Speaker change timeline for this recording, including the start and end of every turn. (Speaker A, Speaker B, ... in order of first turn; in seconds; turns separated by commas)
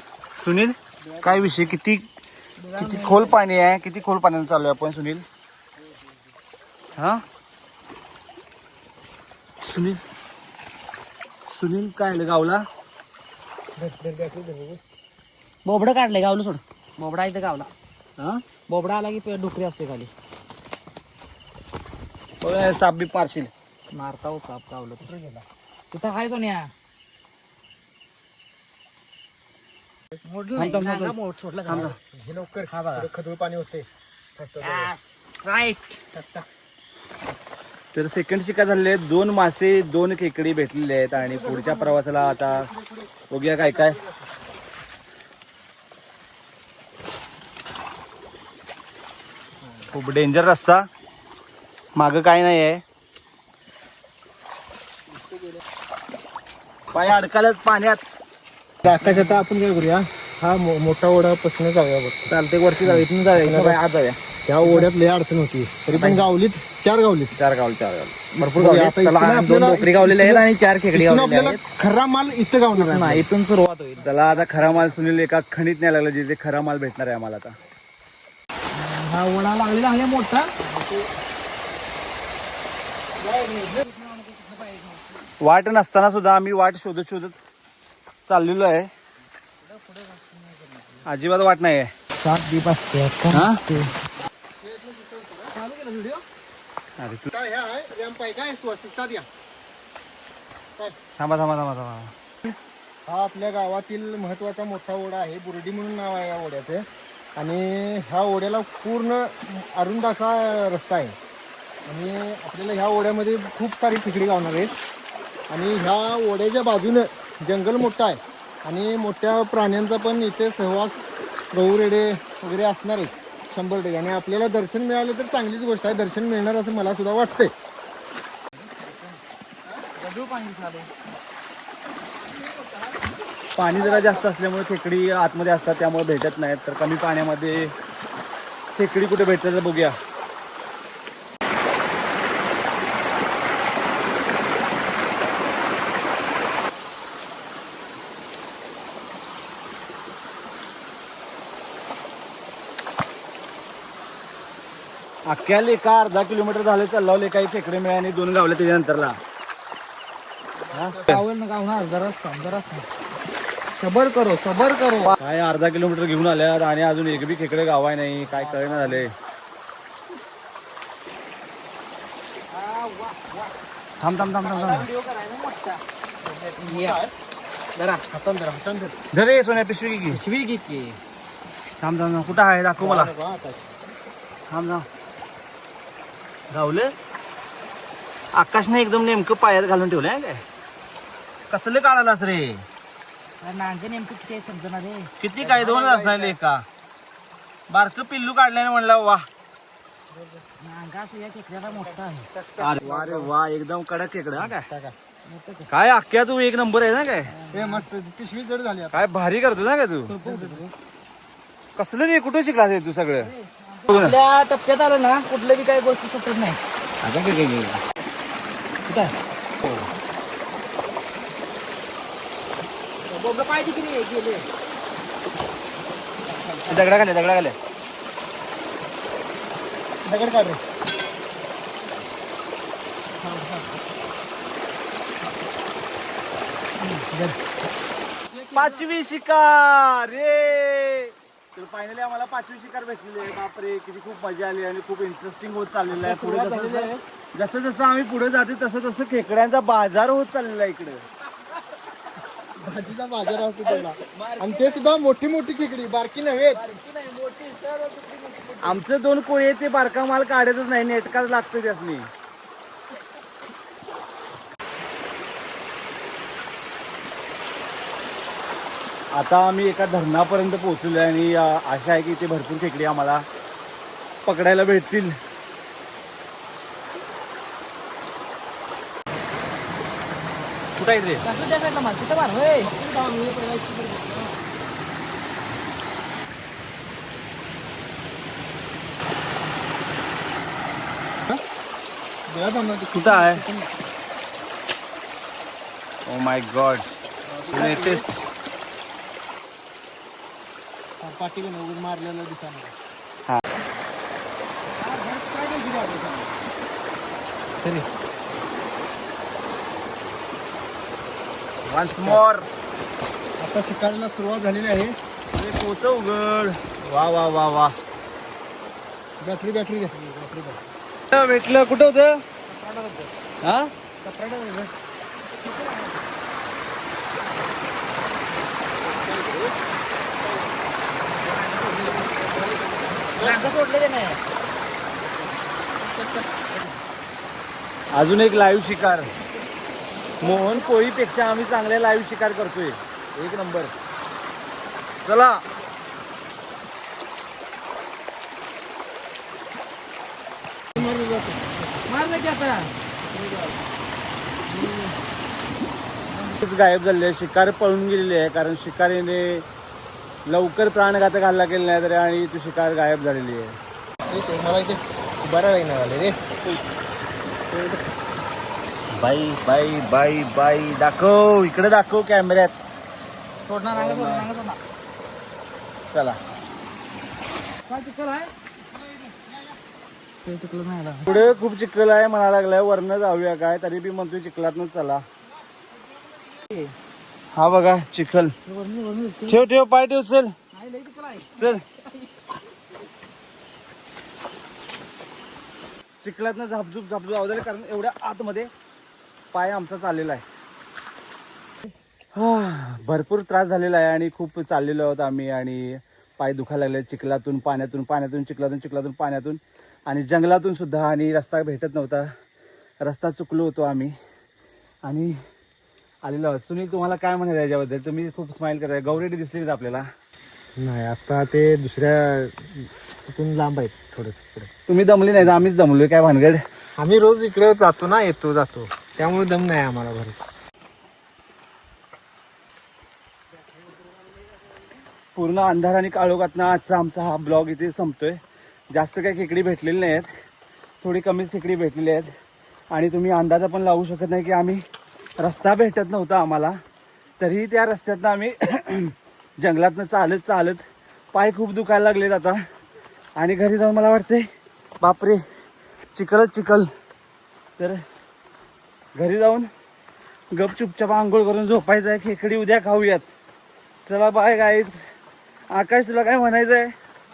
Speaker A: 0.4-2.1, Speaker B: 1.1-1.5, Speaker B: 2.6-3.4, Speaker A: 2.8-5.2, Speaker A: 7.0-7.2, Speaker A: 9.6-10.0, Speaker A: 11.5-12.7, Speaker C: 13.8-14.8, Speaker B: 15.7-17.7, Speaker A: 18.2-18.4, Speaker B: 18.7-20.1, Speaker A: 22.4-23.5, Speaker B: 23.9-25.1, Speaker C: 25.1-25.4, Speaker B: 25.9-26.7, Speaker B: 30.2-31.9, Speaker A: 30.6-31.1, Speaker A: 31.7-31.9, Speaker C: 31.7-34.9, Speaker B: 32.7-33.1, Speaker B: 34.6-36.0, Speaker C: 36.1-36.5, Speaker A: 37.9-42.7, Speaker C: 41.2-44.3, Speaker A: 43.3-44.0, Speaker A: 49.9-50.9, Speaker A: 52.0-52.8, Speaker A: 56.9-58.0, Speaker C: 58.8-62.2, Speaker B: 58.9-59.4, Speaker B: 62.3-64.9, Speaker C: 62.8-63.8, Speaker C: 64.5-67.3, Speaker B: 65.9-66.3, Speaker B: 67.3-71.6, Speaker C: 68.5-73.3, Speaker B: 72.7-75.2, Speaker A: 74.0-77.6, Speaker B: 78.7-80.5, Speaker C: 80.6-81.0, Speaker C: 83.2-83.9, Speaker B: 83.8-85.3, Speaker A: 85.4-87.4, Speaker A: 88.2-88.9, Speaker B: 89.6-91.1, Speaker A: 91.0-91.9, Speaker B: 92.2-93.9, Speaker A: 93.3-93.7, Speaker C: 94.6-95.5, Speaker B: 95.5-96.2, Speaker A: 97.0-97.3, Speaker C: 97.3-99.3, Speaker A: 101.2-102.1, Speaker C: 103.1-111.2, Speaker C: 111.9-114.7, Speaker C: 115.5-127.5, Speaker B: 128.7-129.2, Speaker B: 130.0-130.9, Speaker A: 133.6-137.7, Speaker A: 138.8-139.9, Speaker A: 155.3-159.2, Speaker C: 160.6-161.1, Speaker A: 160.7-161.2, Speaker B: 161.1-162.9, Speaker B: 163.8-165.2, Speaker A: 165.0-169.1, Speaker C: 168.3-169.1, Speaker B: 172.5-173.6, Speaker A: 174.0-174.9, Speaker B: 174.4-175.8, Speaker C: 176.2-177.1, Speaker B: 176.6-177.0, Speaker B: 177.8-178.1, Speaker C: 178.1-179.0, Speaker A: 179.1-180.2, Speaker B: 180.1-181.0, Speaker A: 181.8-183.1, Speaker C: 182.8-183.7, Speaker A: 184.5-184.9, Speaker A: 186.5-186.9, Speaker A: 188.3-190.4, Speaker A: 191.5-192.7, Speaker B: 193.4-195.1, Speaker A: 195.2-196.7, Speaker C: 195.4-196.4, Speaker A: 197.7-199.3, Speaker C: 200.1-200.4, Speaker B: 200.6-202.3, Speaker C: 201.8-203.3, Speaker A: 202.6-204.7, Speaker C: 204.4-204.9, Speaker B: 205.3-205.7, Speaker A: 205.7-207.3, Speaker B: 207.3-207.9, Speaker C: 207.5-209.1, Speaker A: 208.9-210.2, Speaker B: 210.1-210.7, Speaker C: 210.2-210.7, Speaker A: 211.8-213.3, Speaker B: 213.2-216.6, Speaker A: 213.9-214.2, Speaker A: 217.0-217.8, Speaker A: 218.9-219.9, Speaker B: 223.1-224.5, Speaker A: 226.7-227.6, Speaker C: 230.1-230.6, Speaker C: 233.2-233.8, Speaker C: 237.1-237.4, Speaker B: 238.3-238.8, Speaker A: 238.5-251.0, Speaker C: 245.9-247.0, Speaker C: 252.6-256.7, Speaker B: 253.3-254.9, Speaker B: 256.5-258.8, Speaker A: 258.6-262.1, Speaker A: 269.1-273.3, Speaker A: 274.3-275.1, Speaker A: 280.8-281.2, Speaker B: 281.2-282.8, Speaker C: 282.7-284.3, Speaker C: 292.3-293.6, Speaker A: 292.9-293.4, Speaker A: 296.1-296.9, Speaker B: 297.4-298.0, Speaker A: 297.5-298.2, Speaker C: 301.0-302.7, Speaker B: 304.7-306.3, Speaker A: 311.6-312.5, Speaker C: 312.0-312.2, Speaker C: 313.4-315.0, Speaker A: 315.4-317.8, Speaker C: 319.2-320.6, Speaker A: 321.1-322.2, Speaker B: 322.5-323.1, Speaker A: 323.4-323.7, Speaker B: 324.0-324.7, Speaker B: 325.4-326.0, Speaker C: 328.8-329.6, Speaker C: 330.2-330.6, Speaker B: 331.1-332.4, Speaker C: 332.3-333.5, Speaker B: 333.2-334.2, Speaker B: 335.9-336.7, Speaker A: 337.9-339.1, Speaker B: 340.1-340.7, Speaker A: 340.2-343.7, Speaker A: 345.0-345.4, Speaker C: 350.8-351.9, Speaker B: 351.9-352.7, Speaker C: 353.1-353.6, Speaker B: 354.5-354.9, Speaker C: 356.1-356.4, Speaker A: 356.4-359.5, Speaker A: 360.3-363.6, Speaker C: 364.1-366.2, Speaker A: 368.9-372.5, Speaker B: 373.5-374.6, Speaker A: 373.7-374.3, Speaker A: 375.9-376.2, Speaker B: 377.7-378.3, Speaker C: 378.9-379.5, Speaker B: 380.2-381.2, Speaker A: 381.1-385.1, Speaker C: 385.7-386.4, Speaker B: 386.5-386.8, Speaker A: 387.3-388.4, Speaker B: 388.4-389.4, Speaker A: 389.3-390.3, Speaker B: 390.5-392.1, Speaker A: 391.4-391.6, Speaker A: 396.0-398.5, Speaker A: 399.3-400.2, Speaker A: 402.1-412.1, Speaker A: 412.8-413.9, Speaker A: 414.8-415.2, Speaker A: 416.0-419.9, Speaker C: 420.6-424.5, Speaker A: 424.7-426.4, Speaker C: 426.8-430.2, Speaker A: 435.1-438.2, Speaker A: 438.7-440.1, Speaker A: 440.8-442.1, Speaker A: 442.7-444.6, Speaker A: 445.2-446.6, Speaker A: 447.2-450.6, Speaker A: 451.1-452.4, Speaker A: 453.2-454.3, Speaker A: 454.8-455.2, Speaker A: 455.9-456.7, Speaker A: 458.9-459.5, Speaker A: 460.3-463.1, Speaker A: 463.9-464.8, Speaker A: 465.5-466.8